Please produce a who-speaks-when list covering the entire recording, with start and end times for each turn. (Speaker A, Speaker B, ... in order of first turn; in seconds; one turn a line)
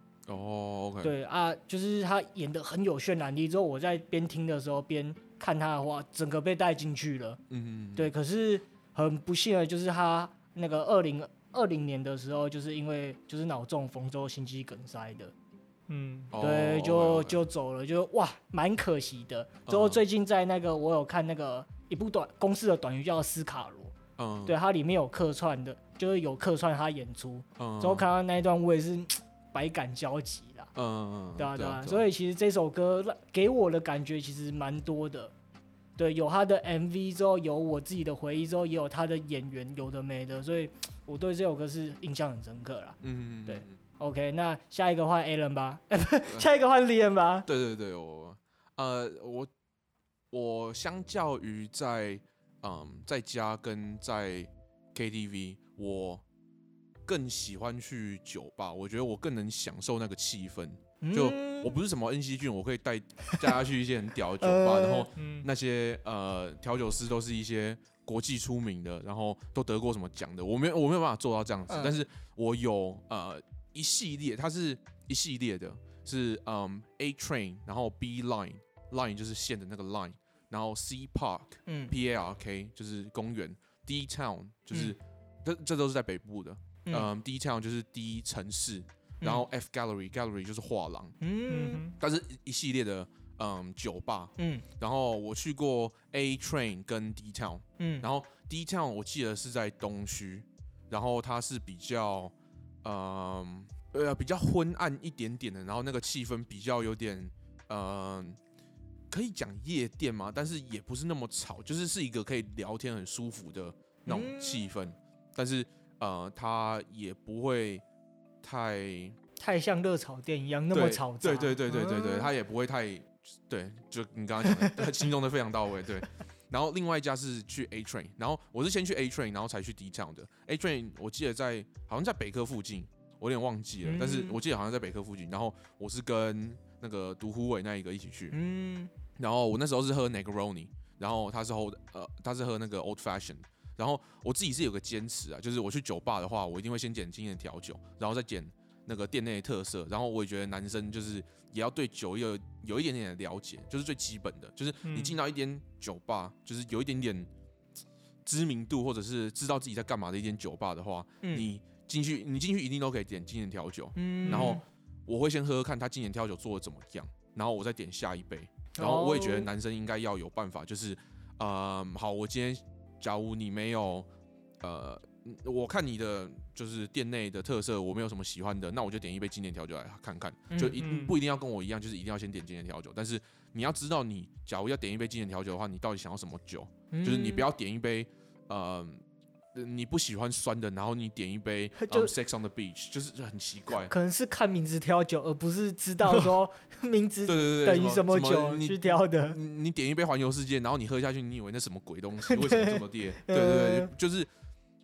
Speaker A: 0.3-1.1
Speaker B: 1.0-7.4
Speaker A: 7.5-8.1
Speaker B: 8.0-15.3
Speaker C: 15.9-16.3
Speaker A: 16.3-17.4
Speaker B: 16.4-23.9
Speaker A: 19.7-20.0
Speaker A: 24.2-24.6
Speaker B: 24.4-30.7
Speaker A: 27.6-28.1
Speaker A: 30.7-32.0
Speaker B: 31.4-35.3
Speaker B: 36.0-47.5
Speaker A: 43.0-43.8
Speaker A: 47.5-49.5
Speaker A: 50.3-56.2
Speaker A: 57.0-91.2
Speaker B: 61.0-61.8
Speaker B: 64.4-65.1
Speaker C: 65.2-65.5
Speaker B: 71.7-71.9
Speaker B: 81.7-81.9
Speaker B: 91.2-91.8
Speaker C: 91.5-92.0
Speaker A: 92.0-108.4
Speaker B: 94.4-94.6
Speaker B: 97.8-98.0
Speaker A: 109.1-117.8
Speaker B: 114.0-114.7
Speaker A: 118.4-119.2
Speaker B: 119.4-122.3
Speaker A: 120.7-138.3
Speaker B: 133.8-134.4
Speaker B: 138.3-138.9
Speaker A: 139.2-157.3
Speaker C: 154.8-155.2
Speaker A: 158.2-174.1
Speaker B: 161.2-161.5
Speaker B: 163.9-164.6
Speaker C: 164.2-164.6
Speaker B: 168.8-169.5
Speaker A: 174.6-189.0
Speaker B: 180.5-180.8
Speaker C: 180.8-181.2
Speaker B: 186.9-187.4
Speaker A: 189.5-193.9
Speaker B: 191.8-192.1
Speaker B: 193.9-199.4
Speaker A: 197.2-204.3
Speaker B: 202.3-203.9